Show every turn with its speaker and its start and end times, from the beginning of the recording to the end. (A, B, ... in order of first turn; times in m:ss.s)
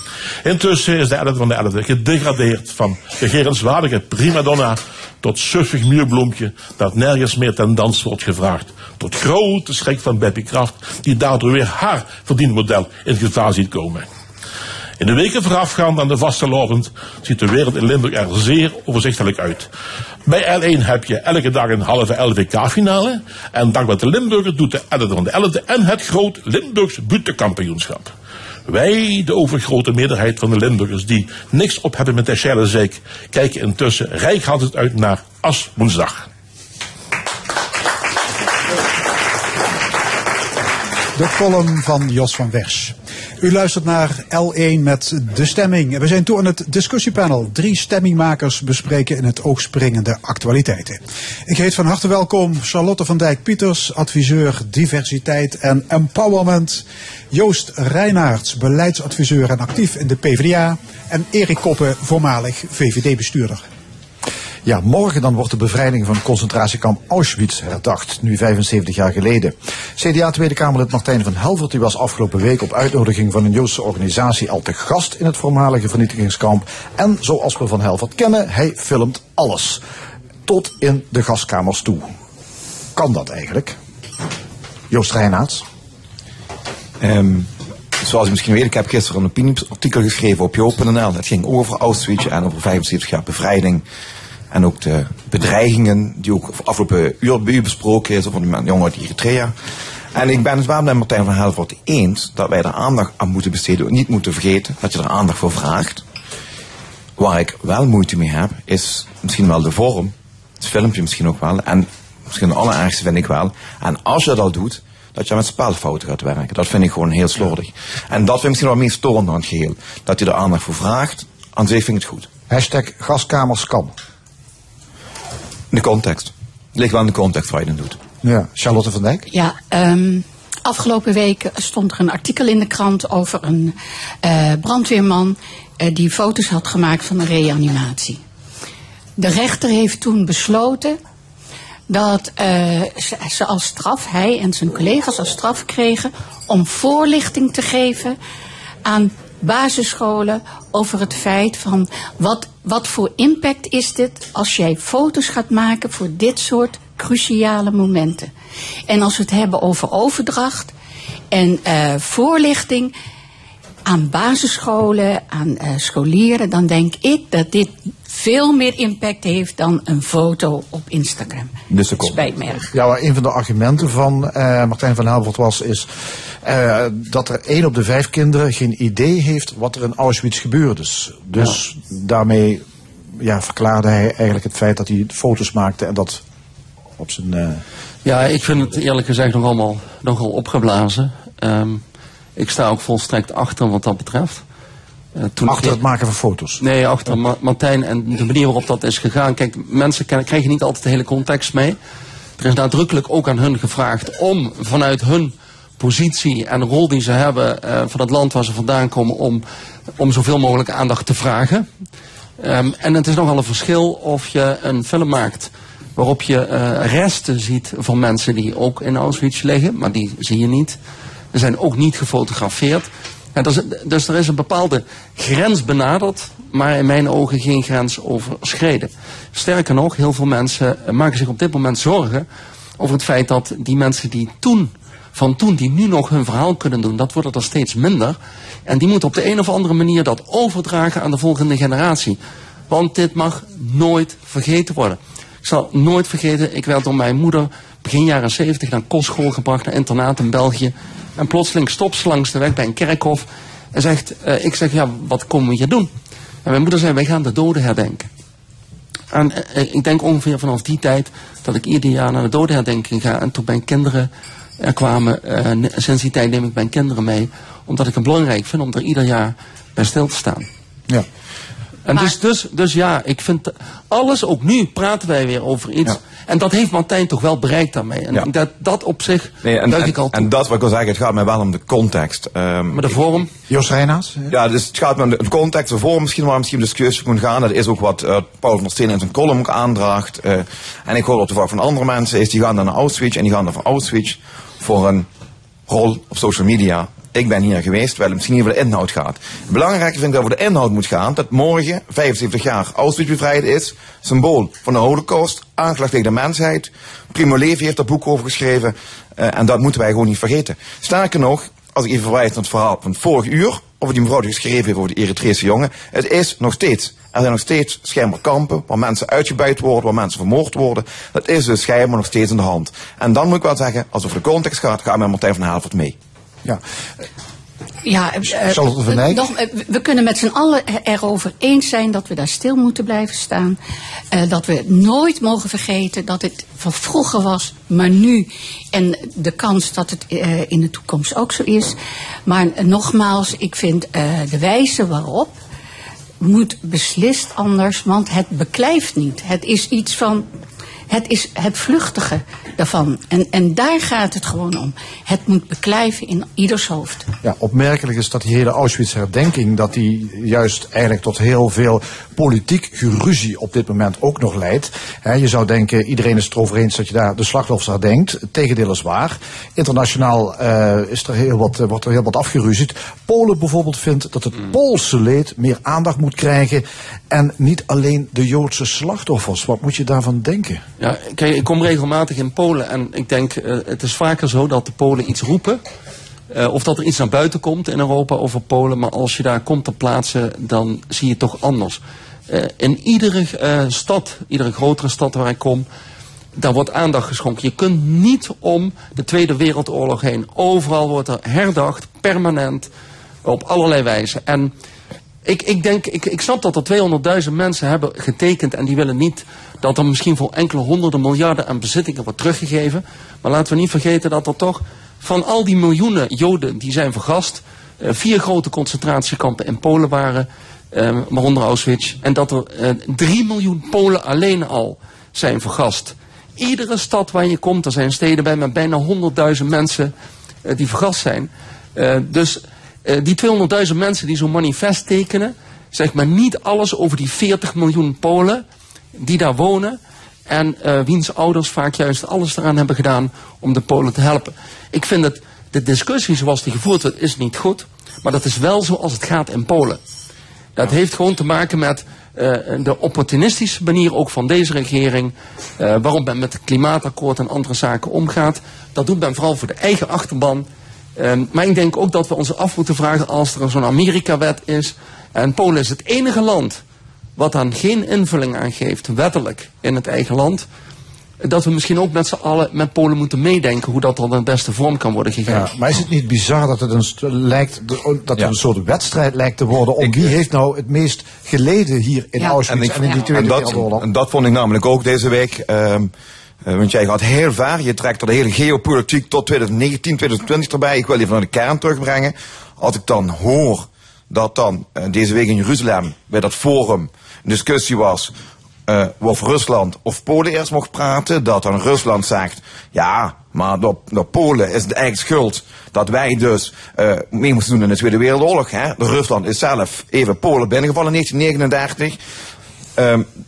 0:00.4-0:14.1 A
0:15.0-0:19.7 A
0:20.2-0:28.1 A
0:28.6-0:36.3 A
0:41.2-1:03.6 B
1:04.6-1:19.8 C
1:20.4-1:22.1 C
1:22.9-1:23.8 C
1:24.9-1:25.6 C
1:27.0-1:27.5 D
1:28.0-1:33.8 D
1:34.5-1:39.5 D
1:40.1-1:46.0 D
1:47.2-2:02.3 D
2:02.5-2:03.9 C
2:05.7-2:08.0 D
2:08.2-2:09.2 C
2:09.3-2:18.2 E
2:19.2-2:21.0 E
2:21.9-2:28.2 E
2:28.8-2:38.3 E
2:38.9-2:40.7 E
2:41.3-2:42.9 E
2:43.8-2:52.7 E
2:51.7-2:52.2 D
2:52.7-2:55.9 C
2:56.4-3:02.6 C
3:03.2-3:06.2 C
3:07.0-3:07.6 C
3:08.0-3:11.8 F
3:12.4-3:14.4 F
3:15.1-3:15.8 F
3:15.4-3:16.6 C
3:16.6-3:21.8 F
3:22.4-3:29.4 F
3:30.0-3:31.7 F
3:32.4-3:40.8 F
3:41.3-3:52.2 F
3:52.8-4:15.9 F
4:16.4-4:18.1 F
4:19.1-4:30.5 F
4:31.9-4:40.3 F
4:39.4-4:43.0 D
4:42.7-4:43.3 F
4:43.5-4:44.3 C
4:44.3-4:55.1 D
4:55.7-5:25.9 D
5:27.8-5:33.6 E
5:28.4-5:29.3 C
5:34.1-5:45.4 E
5:46.2-5:50.2 E
5:50.9-5:57.1 E
5:57.2-6:20.6 C
6:20.8-6:25.6 F
6:26.3-6:35.6 F
6:36.4-6:42.7 F
6:43.2-6:44.5 F
6:45.2-7:09.9 F
7:10.4-7:18.4 F
7:19.0-7:29.8 F
7:30.6-7:40.4 F
7:41.0-7:46.6 F
7:47.2-7:50.4 F
7:51.2-7:55.5 F
7:55.3-8:03.8 C
8:02.2-8:02.9 E
8:02.5-8:05.9 D
8:06.4-8:18.1 D
8:18.7-8:32.0 D
8:32.8-8:33.0 D